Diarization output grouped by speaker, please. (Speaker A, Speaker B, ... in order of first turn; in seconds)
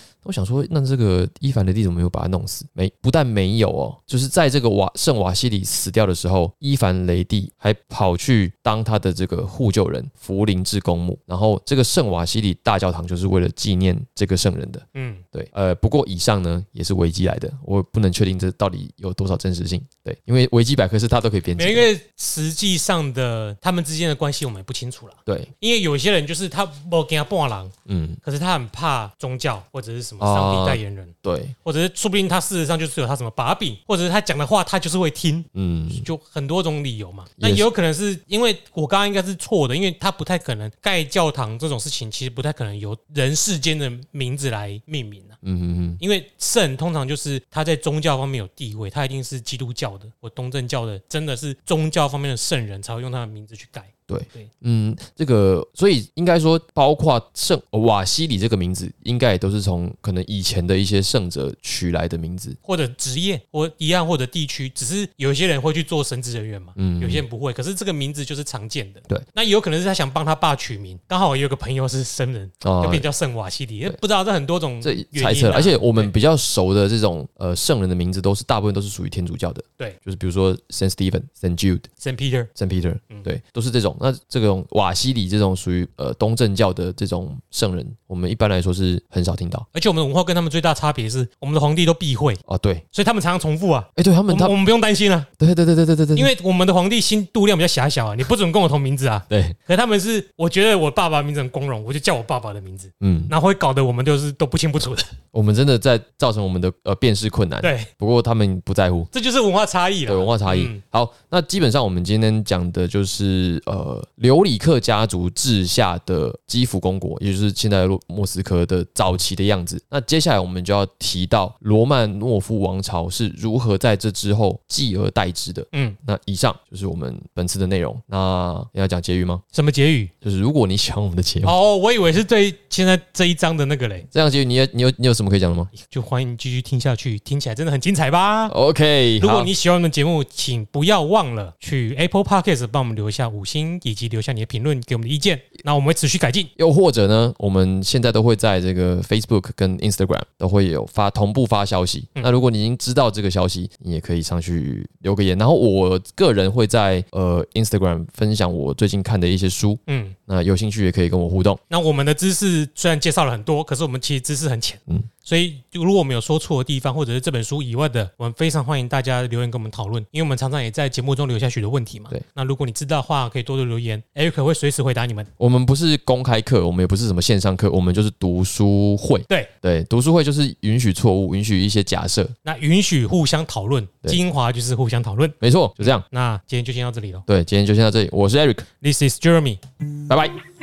Speaker A: 0.2-21.9, 25.2-25.5, 27.9-28.2, 30.2-31.5, 35.5-36.0, 37.4-37.7, 45.4-46.0, 54.1-62.6, 66.8-67.2, 72.6-73.0, 74.8-81.8, 82.5-89.6, 92.5-92.8, 94.0-94.5, 95.4-96.3, 99.3-99.6, 103.0-103.3, 105.3-109.1, 110.0-129.4, 130.2-131.5, 134.1-135.7, 138.5-139.5, 146.6-161.6, 175.4-182.3, 185.4-186.0, 187.3-188.7, 190.1-190.3
Speaker B: 14.9-15.2, 21.6-45.4, 46.0-54.5, 62.6-76.1, 82.0-82.5, 89.7-92.4, 92.9-95.3, 96.2-105.1, 107.6-107.9, 109.1-110.8, 125.7-126.0, 129.5-130.1, 131.4-134.1, 135.7-138.5, 139.2-146.5, 159.9-160.2, 161.7-175.3, 182.4-187.2, 188.8-189.6